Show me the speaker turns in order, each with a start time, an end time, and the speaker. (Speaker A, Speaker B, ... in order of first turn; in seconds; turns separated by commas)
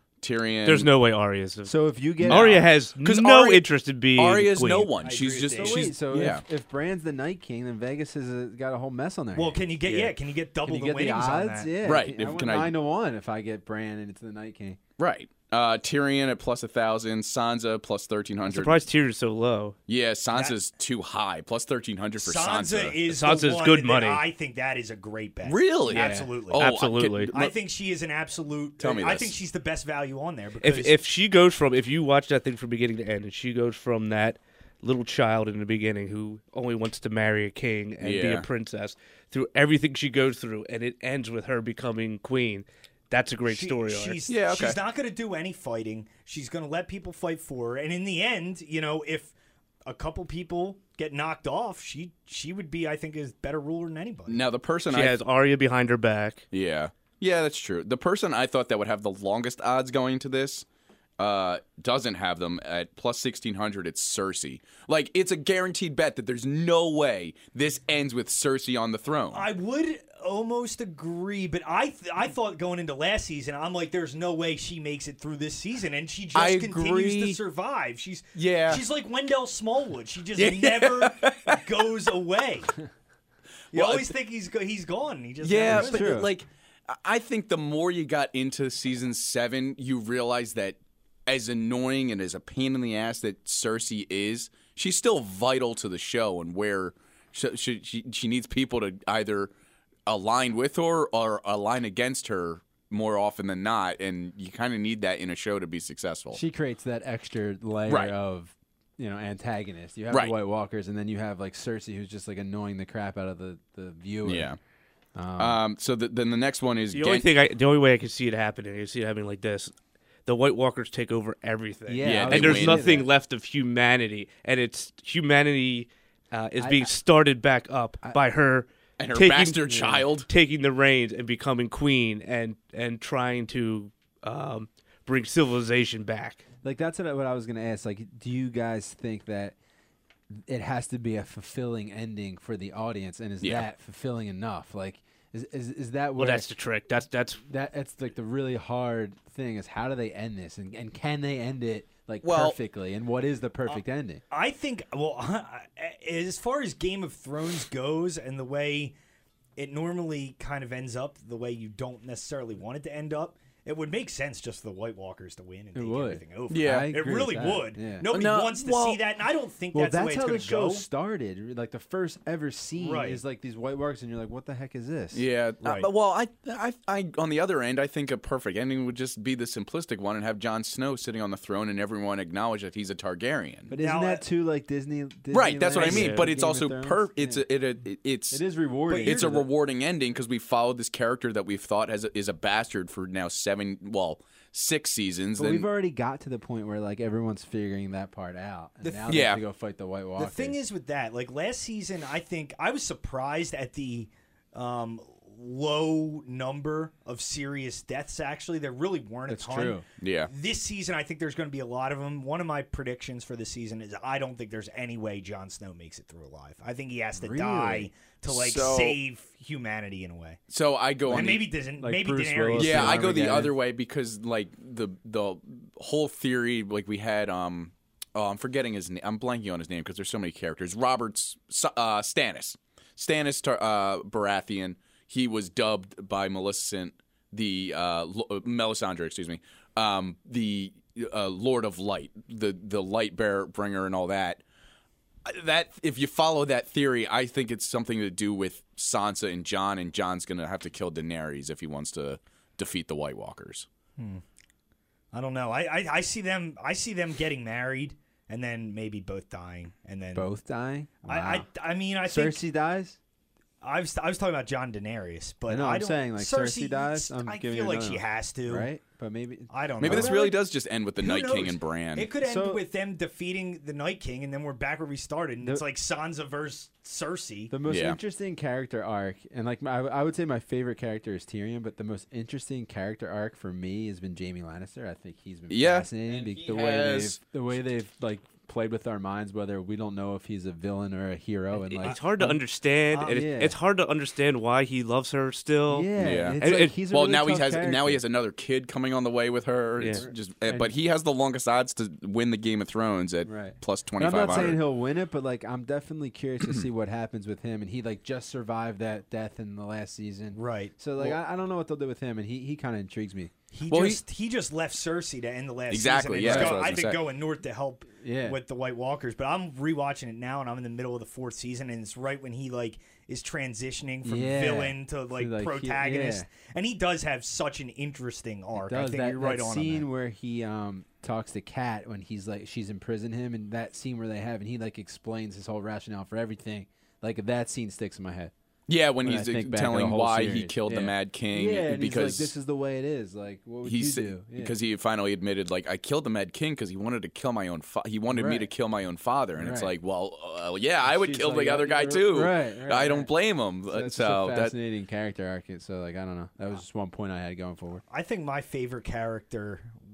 Speaker A: 0.2-0.9, Speaker B: 0.6-1.7, Speaker C: 1.6-2.7, Speaker B: 2.2-4.9, Speaker A: 2.3-3.6, Speaker A: 4.1-6.4, Speaker D: 5.0-5.9, Speaker C: 5.5-9.6, Speaker D: 9.3-11.8, Speaker B: 9.8-10.1, Speaker C: 10.7-14.8, Speaker A: 11.8-12.7, Speaker A: 15.0-18.8, Speaker B: 18.4-19.8, Speaker A: 19.9-23.2, Speaker D: 20.3-20.6, Speaker D: 22.2-26.7, Speaker B: 23.1-24.2, Speaker A: 25.4-27.5, Speaker B: 25.9-27.3, Speaker D: 27.3-30.9, Speaker A: 28.8-29.3, Speaker B: 30.6-44.2, Speaker A: 38.0-38.5, Speaker D: 43.5-49.3, Speaker A: 44.3-44.8, Speaker D: 49.9-54.4, Speaker A: 54.3-55.1, Speaker B: 54.9-56.4, Speaker A: 56.5-60.6, Speaker A: 61.2-69.5, Speaker D: 69.3-82.7, Speaker A: 76.3-77.4, Speaker A: 78.3-78.8, Speaker A: 80.4-81.6, Speaker D: 83.7-86.3, Speaker A: 83.7-84.1, Speaker A: 85.4-99.5, Speaker C: 85.7-86.3, Speaker A: 100.1-106.4, Speaker C: 106.3-114.5, Speaker A: 107.9-108.1, Speaker A: 114.2-114.6, Speaker C: 115.2-115.6, Speaker A: 115.4-117.3, Speaker B: 116.9-119.7, Speaker B: 120.2-136.4, Speaker C: 121.9-123.1, Speaker A: 122.0-122.8, Speaker C: 126.6-126.9, Speaker A: 129.0-130.3, Speaker C: 129.7-130.1, Speaker C: 136.6-139.5, Speaker C: 140.5-146.5, Speaker A: 143.4-143.7, Speaker B: 146.2-147.4, Speaker C: 147.4-154.2, Speaker A: 152.2-152.6, Speaker D: 154.3-158.9, Speaker D: 159.6-170.8, Speaker C: 165.7-168.1, Speaker A: 166.5-166.9, Speaker A: 168.1-169.0, Speaker C: 169.7-175.2, Speaker D: 172.8-173.2, Speaker A: 175.1-183.7, Speaker D: 175.6-175.9, Speaker D: 183.7-184.2, Speaker C: 183.7-187.4, Speaker A: 185.3-188.4, Speaker B: 185.7-186.3, Speaker C: 188.3-189.4, Speaker D: 188.9-189.4, Speaker A: 189.0-195.7, Speaker C: 195.4-200.6, Speaker D: 198.8-199.3, Speaker A: 199.1-199.4, Speaker D: 200.2-220.4, Speaker C: 209.3-209.8, Speaker A: 210.0-210.3, Speaker C: 217.2-217.9, Speaker A: 218.3-219.0, Speaker A: 220.5-221.4, Speaker D: 221.1-223.2, Speaker C: 221.1-223.5, Speaker A: 222.6-244.4, Speaker A: 245.2-253.7, Speaker D: 254.0-254.2, Speaker D: 255.1-260.3, Speaker C: 260.1-261.4, Speaker D: 261.1-262.4, Speaker C: 262.0-263.0, Speaker D: 263.6-268.7, Speaker C: 265.5-270.1, Speaker D: 269.5-277.5, Speaker A: 269.8-272.1, Speaker C: 272.2-272.6, Speaker C: 277.5-292.4, Speaker A: 277.7-278.0, Speaker A: 285.5-287.2, Speaker B: 291.5-296.7, Speaker D: 292.9-293.2, Speaker C: 293.1-293.5, Speaker C: 295.7-298.0, Speaker A: 296.0-304.6, Speaker B: 299.8-300.0, Speaker C: 299.9-300.7, Speaker C: 303.2-313.3, Speaker D: 310.3-310.8, Speaker D: 313.5-329.9, Speaker A: 313.7-314.0, Speaker A: 315.7-317.0, Speaker C: 316.2-316.6, Speaker C: 318.0-318.4, Speaker C: 324.0-326.3, Speaker C: 328.6-338.3, Speaker A: 338.7-342.3, Speaker C: 339.0-344.5, Speaker A: 343.6-354.5, Speaker C: 348.1-348.5, Speaker C: 349.4-349.7, Speaker C: 350.8-353.1, Speaker C: 353.7-357.8, Speaker D: 357.9-359.7